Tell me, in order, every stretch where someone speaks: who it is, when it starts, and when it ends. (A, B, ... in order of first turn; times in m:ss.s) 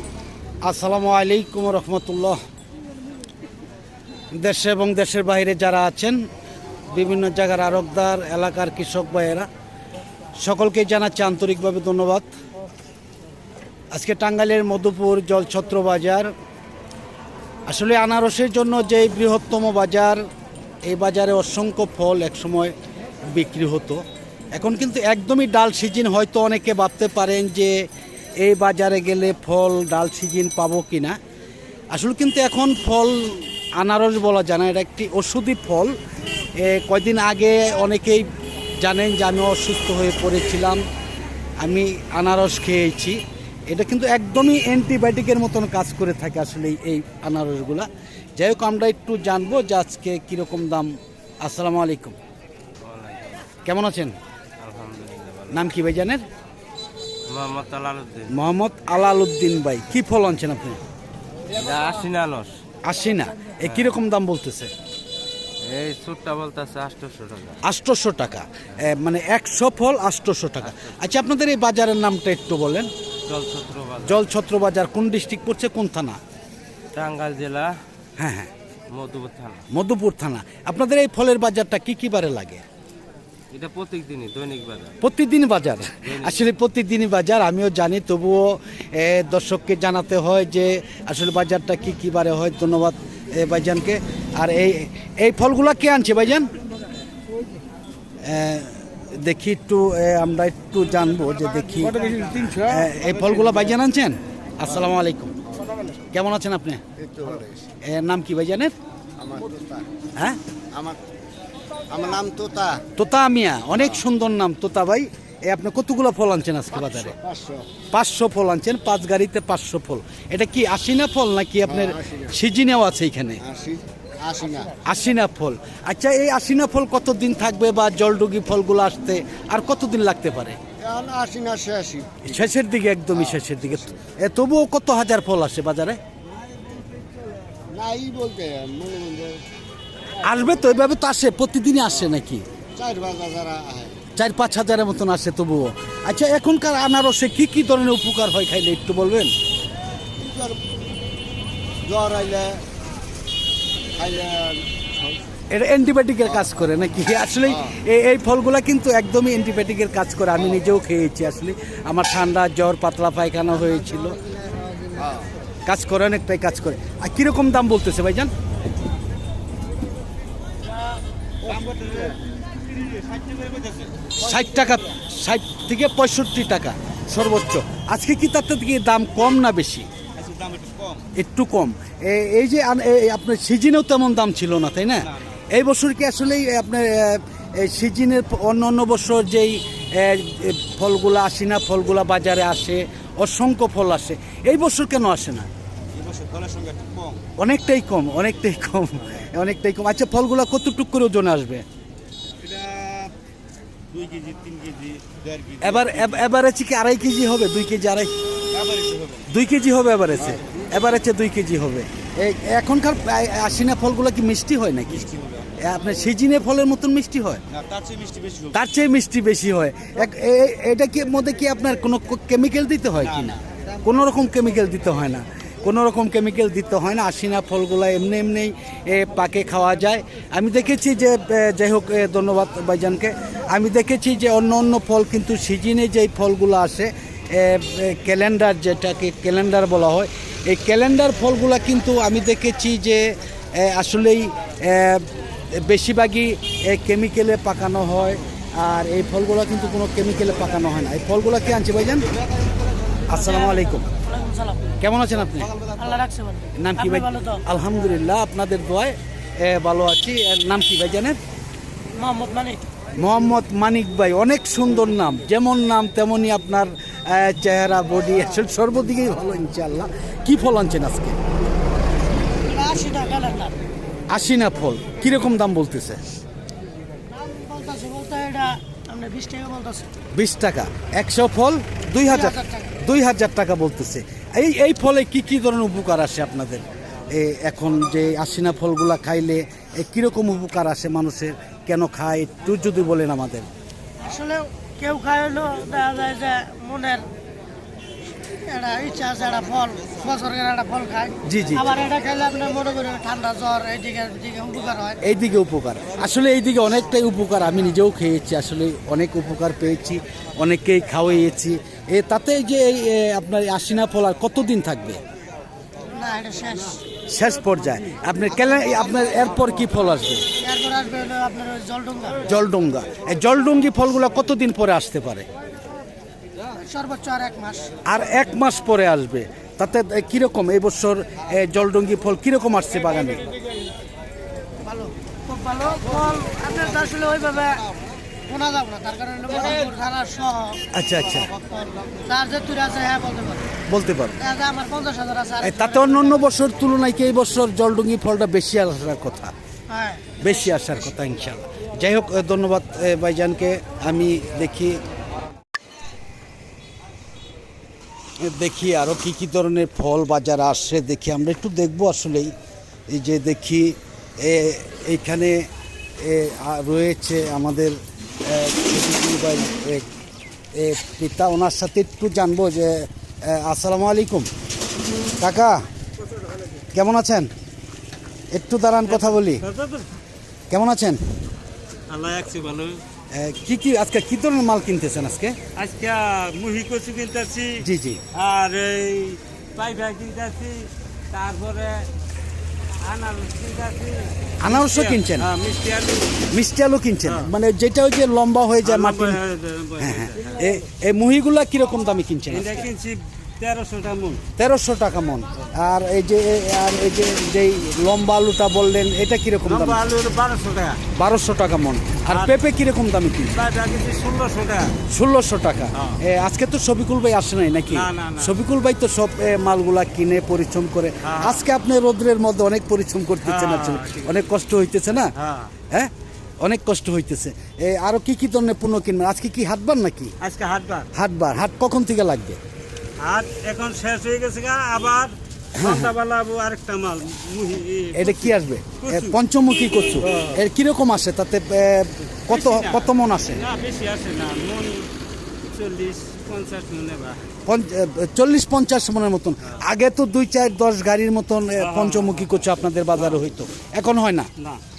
0:00.6-0:02.4 A
0:04.3-0:06.2 A
0:06.9-0:09.5 A
0:10.4-0:12.3 A
0:13.9-0:16.3 A
0:17.7-0:20.2 A
0:20.8-0:22.7 A
0:23.3-0:27.9 A
0:28.4-0:31.2 A
0:31.9-0:36.0 A
0:36.6-0:40.8 A
0:41.6-0:52.2 A
0:52.8-0:53.5 B
0:53.6-0:54.2 A
0:54.6-0:55.6 B
0:55.5-0:56.2 A
0:57.3-0:58.3 B
0:58.3-1:00.8 A
1:01.5-1:02.6 B
1:02.8-1:04.7 A
1:03.6-1:04.0 B
1:05.6-1:07.6 B
1:07.6-1:12.9 A
1:10.6-1:11.0 B
1:13.3-1:14.2 B
1:14.0-1:16.2 A
1:16.9-1:17.7 B
1:18.2-1:18.5 A
1:18.9-1:19.6 B
1:19.7-1:22.6 A
1:23.5-1:24.9 B
1:25.0-1:36.5 A
1:26.0-1:26.4 B
1:38.2-1:45.3 A
1:42.0-1:42.5 C
1:46.1-1:46.8 A
1:47.0-1:47.6 C
1:47.8-1:48.7 A
1:49.2-1:49.9 C
1:50.7-1:51.0 C
1:51.9-1:52.8 C
1:53.0-1:57.2 A
1:56.9-1:57.7 C
1:57.9-2:03.4 A
2:01.7-2:02.3 C
2:03.4-2:04.7 C
2:04.8-2:10.6 A
2:10.8-2:12.5 C
2:12.2-2:16.0 A
2:13.1-2:13.8 C
2:17.7-2:19.4 C
2:20.2-2:22.4 A
2:22.8-2:24.0 C
2:24.2-2:29.3 A
2:30.2-2:30.6 C
2:31.8-2:32.6 C
2:34.0-2:35.2 C
2:35.5-2:44.2 A
2:44.5-2:45.3 C
2:45.6-2:48.3 A
2:51.4-2:52.2 D
2:52.9-2:53.8 B
2:53.1-2:53.9 D
2:54.2-2:59.9 A
3:00.2-3:01.0 D
3:00.3-3:01.0 B
3:01.1-3:15.5 A
3:16.0-3:17.0 B
3:16.2-3:17.2 D
3:17.4-3:21.6 A
3:22.5-3:23.1 D
3:23.9-3:25.9 B
3:24.0-3:25.5 D
3:25.6-3:28.1 A
3:28.6-3:28.9 B
3:28.9-3:29.2 D
3:29.3-3:37.4 A
3:37.6-3:38.4 D
3:37.8-3:38.3 B
3:38.5-4:12.0 A
4:13.1-4:13.9 A
4:13.1-4:14.7 E
4:14.8-4:15.6 A
4:15.7-4:17.4 E
4:16.6-4:21.2 A
4:22.0-4:22.6 E
4:22.9-4:31.2 A
4:32.3-4:33.6 E
4:34.1-4:36.2 A
4:37.1-4:39.9 E
4:40.1-4:53.5 A
4:42.0-4:42.7 E
4:54.0-4:57.0 E
4:58.4-5:05.0 E
5:01.2-5:01.8 A
5:05.0-5:15.0 A
5:15.9-5:16.8 E
5:17.1-5:20.2 A
5:20.4-5:22.2 E
5:22.2-5:25.2 A
5:26.5-5:28.3 E
5:27.8-5:33.3 A
5:34.6-5:37.7 E
5:38.3-5:40.6 E
5:40.7-5:41.3 A
5:42.0-5:43.5 E
5:43.7-5:44.2 A
5:44.2-5:46.3 E
5:45.4-5:49.3 A
5:49.7-5:50.3 E
5:50.2-5:54.8 A
5:58.2-6:02.3 A
6:02.9-6:09.9 A
6:10.5-6:14.3 A
6:15.2-6:15.6 A
6:16.7-6:17.3 A
6:18.3-6:19.4 A
6:18.9-6:19.9 D
6:20.5-6:21.0 A
6:21.9-6:22.8 D
6:23.1-6:25.4 A
6:25.6-6:31.9 D
6:27.6-6:28.0 A
6:32.8-6:36.2 D
6:34.4-6:35.3 A
6:36.3-6:39.2 A
6:38.6-6:40.4 D
6:39.8-6:42.7 A
6:42.3-6:44.2 D
6:44.4-6:49.8 A
6:49.4-6:50.8 D
6:50.9-6:53.4 A
6:52.0-6:52.3 D
6:53.3-6:54.8 D
6:54.9-7:05.1 A
6:57.7-6:58.3 D
7:01.0-7:01.4 D
7:03.2-7:04.1 D
7:05.2-7:05.5 D
7:05.7-7:10.1 A
7:10.2-7:10.9 D
7:10.9-7:12.4 A
7:13.0-7:18.2 D
7:15.6-7:15.9 A
7:17.9-7:23.4 A
7:18.8-7:19.1 D
7:20.0-7:20.4 D
7:22.3-7:24.9 D
7:25.5-7:27.2 D
7:27.4-7:34.3 A
7:31.6-7:32.2 D